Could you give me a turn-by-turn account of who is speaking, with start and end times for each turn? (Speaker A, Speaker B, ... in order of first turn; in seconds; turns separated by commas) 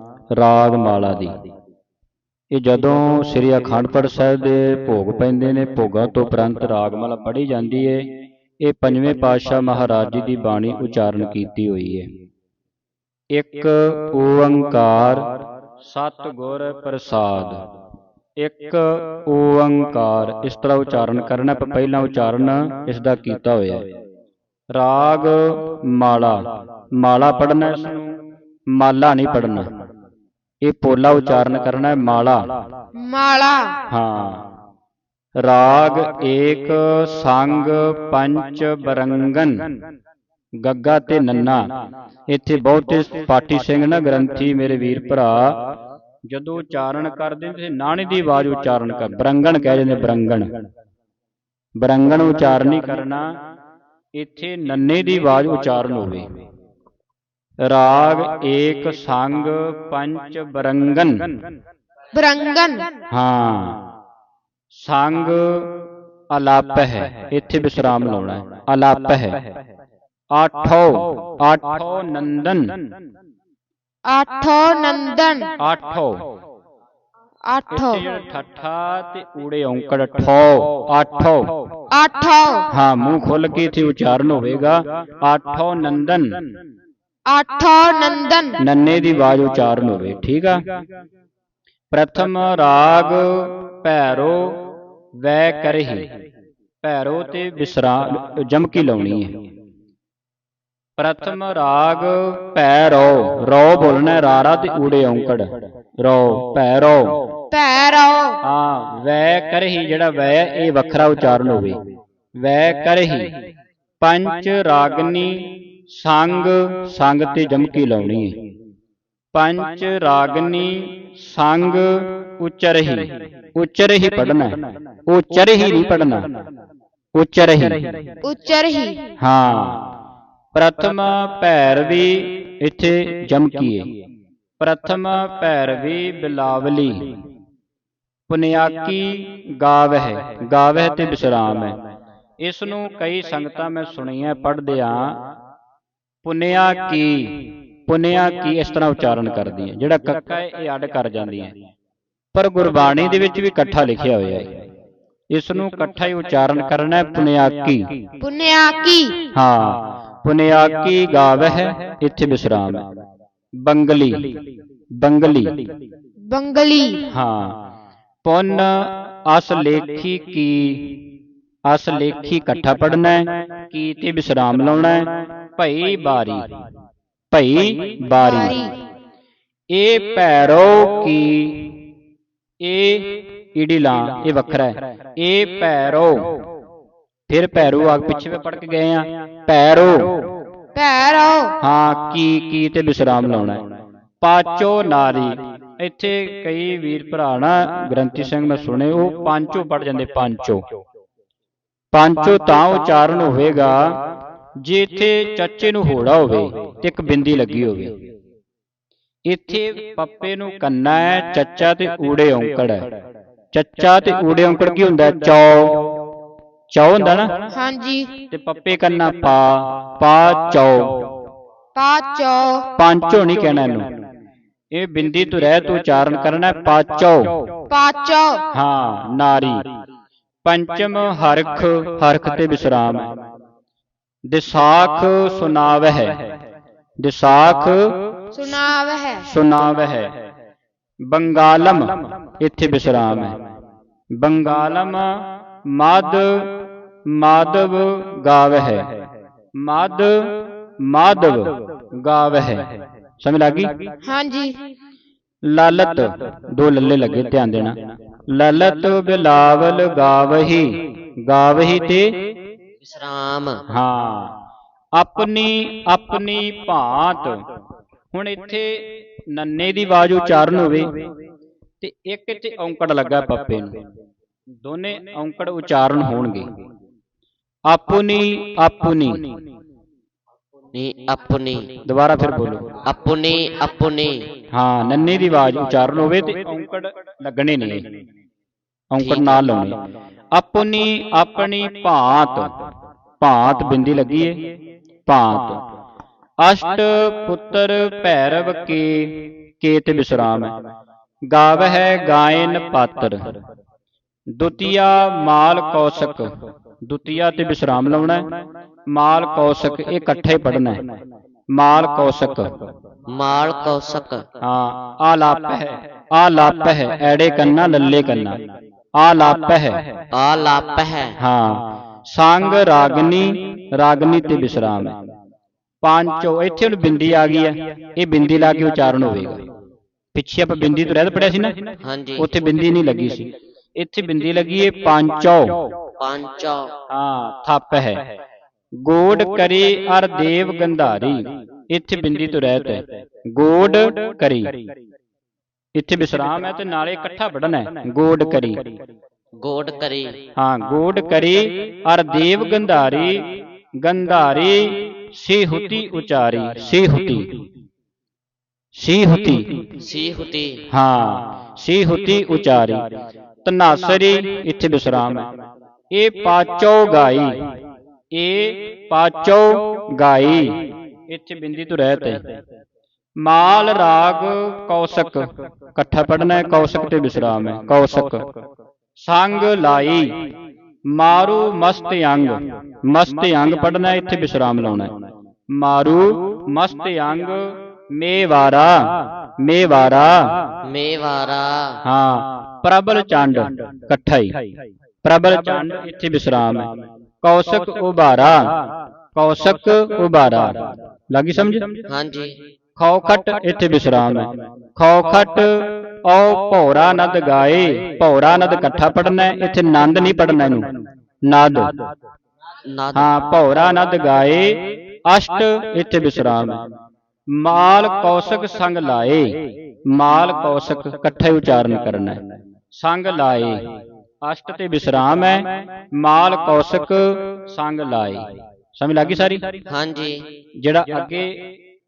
Speaker A: 0.3-1.3, Speaker A: 2.5-8.1, Speaker A: 8.6-12.1, Speaker A: 13.3-15.3, Speaker A: 15.8-17.6, Speaker A: 18.4-23.9, Speaker A: 24.7-26.4, Speaker A: 26.9-28.1, Speaker A: 28.7-29.6, Speaker A: 30.6-32.6, Speaker B: 33.0-33.8, Speaker A: 33.9-34.4, Speaker A: 35.4-39.6, Speaker A: 40.6-41.7, Speaker A: 42.3-45.5, Speaker A: 46.3-50.5, Speaker A: 51.8-53.2, Speaker A: 54.2-56.3, Speaker A: 57.6-61.3, Speaker B: 62.1-62.9, Speaker A: 63.1-63.8, Speaker A: 64.7-65.7, Speaker A: 66.3-69.4, Speaker A: 70.3-72.8, Speaker B: 74.0-75.5, Speaker A: 75.6-76.2, Speaker B: 77.5-78.0, Speaker A: 77.7-81.5, Speaker B: 81.9-82.7, Speaker A: 82.7-86.4, Speaker B: 87.3-88.6, Speaker A: 88.6-90.6, Speaker A: 91.9-94.6, Speaker A: 95.2-96.1, Speaker A: 96.8-99.3, Speaker A: 101.0-105.5, Speaker A: 106.0-107.2, Speaker B: 107.5-108.4, Speaker A: 108.4-111.8, Speaker A: 112.4-113.3, Speaker A: 114.0-118.4, Speaker A: 119.3-126.3, Speaker A: 127.1-128.0, Speaker B: 128.2-129.0, Speaker A: 129.2-129.9, Speaker A: 130.5-133.9, Speaker A: 134.6-137.1, Speaker A: 138.3-141.8, Speaker A: 142.4-145.2, Speaker A: 146.2-151.5, Speaker A: 152.3-154.5, Speaker A: 155.3-158.0, Speaker B: 158.2-159.2, Speaker A: 159.3-162.8, Speaker A: 163.6-164.4, Speaker A: 165.0-165.7, Speaker B: 166.3-167.0, Speaker A: 167.1-167.6, Speaker A: 168.2-171.0, Speaker A: 171.7-176.4, Speaker A: 177.3-178.6, Speaker B: 178.2-178.8, Speaker A: 179.7-181.8, Speaker A: 182.6-186.3, Speaker A: 187.3-190.2, Speaker B: 190.7-191.6, Speaker A: 191.6-193.6, Speaker A: 194.2-200.6, Speaker A: 201.9-203.8, Speaker A: 204.6-207.9, Speaker A: 209.3-212.9, Speaker A: 213.5-215.9, Speaker A: 216.7-217.5, Speaker B: 217.5-218.1, Speaker A: 218.3-221.0, Speaker B: 221.7-222.7, Speaker A: 222.8-223.9, Speaker A: 224.7-227.4, Speaker B: 227.7-228.4, Speaker A: 228.5-229.6, Speaker A: 230.4-233.1, Speaker A: 234.3-236.2, Speaker A: 237.0-237.9, Speaker B: 238.3-239.2, Speaker A: 239.2-240.1, Speaker A: 241.1-243.4, Speaker A: 244.2-245.1, Speaker A: 245.7-246.5, Speaker A: 247.1-248.9, Speaker A: 249.6-252.7, Speaker A: 253.2-253.9, Speaker B: 254.0-254.6, Speaker A: 255.4-257.8, Speaker A: 258.3-262.1, Speaker C: 262.8-263.6, Speaker A: 263.7-264.3, Speaker A: 264.9-267.4, Speaker A: 268.1-270.9, Speaker A: 271.8-273.7, Speaker A: 274.6-276.5, Speaker A: 277.7-279.3, Speaker C: 280.7-281.7, Speaker A: 281.9-282.7, Speaker C: 282.8-284.2, Speaker A: 284.5-287.8, Speaker A: 288.9-289.8, Speaker C: 289.0-289.5, Speaker A: 290.3-292.5, Speaker A: 293.2-294.4, Speaker A: 295.1-295.6, Speaker A: 296.4-300.5, Speaker A: 301.3-303.3, Speaker A: 304.3-306.3, Speaker A: 306.8-308.3, Speaker A: 308.9-310.8, Speaker A: 311.5-312.6, Speaker C: 313.1-314.2, Speaker A: 314.4-318.4, Speaker A: 319.0-319.9, Speaker C: 320.1-321.1, Speaker A: 321.2-324.9, Speaker A: 325.8-329.4, Speaker A: 330.1-331.6, Speaker C: 331.8-332.2, Speaker A: 332.2-335.6, Speaker C: 336.0-336.7, Speaker A: 336.9-338.0, Speaker A: 338.8-344.5, Speaker A: 345.8-348.6, Speaker C: 349.4-350.1, Speaker A: 350.4-357.3, Speaker A: 358.8-359.6, Speaker C: 359.8-360.6, Speaker A: 360.7-362.8, Speaker A: 363.4-365.3, Speaker A: 365.9-367.4, Speaker A: 368.1-372.2, Speaker A: 373.2-378.2, Speaker A: 379.0-380.2, Speaker A: 380.9-384.9, Speaker A: 385.5-390.4, Speaker C: 390.6-391.8, Speaker A: 391.8-394.4, Speaker A: 395.0-396.7, Speaker A: 397.2-398.5, Speaker A: 399.1-401.6, Speaker C: 401.9-402.3, Speaker A: 402.8-410.7, Speaker A: 411.2-411.7, Speaker C: 412.7-413.1, Speaker A: 412.9-416.6, Speaker A: 417.3-422.2, Speaker A: 422.8-423.6, Speaker A: 424.2-429.4, Speaker C: 429.7-430.2, Speaker A: 430.6-431.5